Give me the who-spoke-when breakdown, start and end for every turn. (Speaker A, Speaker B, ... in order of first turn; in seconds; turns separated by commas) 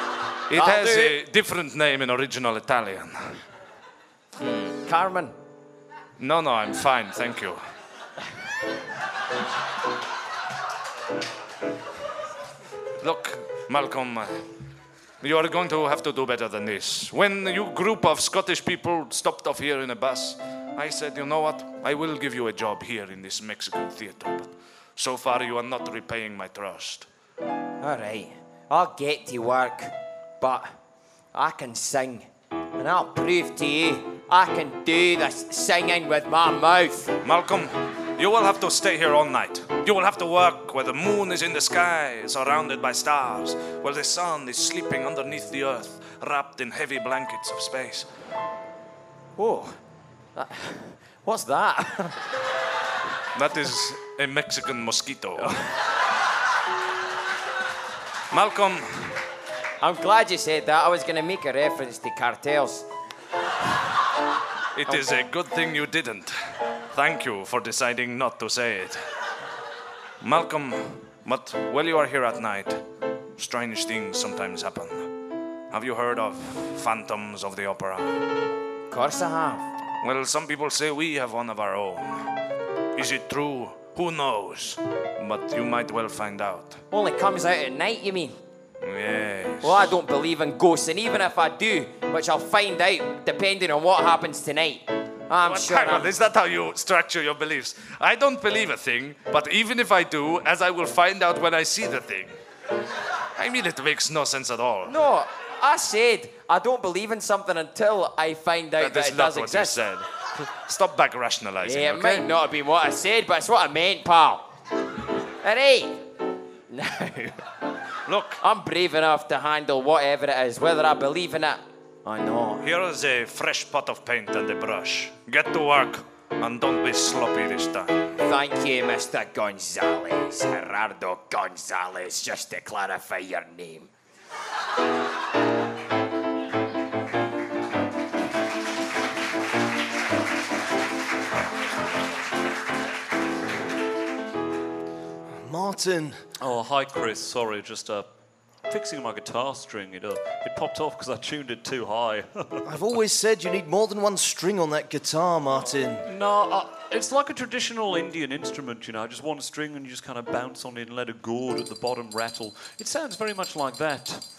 Speaker A: 0.5-3.2, Speaker B: 0.5-1.2, Speaker B: 4.7-5.3, Speaker A: 6.2-7.6, Speaker A: 13.0-14.4, Speaker A: 15.2-27.1, Speaker B: 27.8-30.7, Speaker B: 31.3-37.1, Speaker A: 37.2-48.1, Speaker B: 49.4-49.8, Speaker B: 50.4-52.2, Speaker A: 53.4-55.6, Speaker A: 58.3-58.9, Speaker B: 59.8-62.9, Speaker A: 64.8-66.3, Speaker A: 66.9-69.0, Speaker A: 70.2-72.8, Speaker A: 73.4-75.1, Speaker A: 75.7-78.2, Speaker B: 78.9-79.6, Speaker A: 80.0-82.2, Speaker A: 83.0-86.8, Speaker B: 86.9-88.4, Speaker A: 88.8-90.0, Speaker B: 89.6-96.1, Speaker A: 95.5-102.3, Speaker A: 103.4-105.0, Speaker B: 104.8-109.8, Speaker A: 108.8-112.3, Speaker B: 111.6-114.5, Speaker B: 115.4-116.0, Speaker B: 116.7-117.4, Speaker A: 118.1-118.4, Speaker B: 118.4-122.7, Speaker A: 122.6-128.1, Speaker B: 128.2-133.9, Speaker C: 145.3-146.2, Speaker D: 146.4-148.1, Speaker D: 148.7-152.6, Speaker C: 152.7-156.1, Speaker D: 156.0-164.2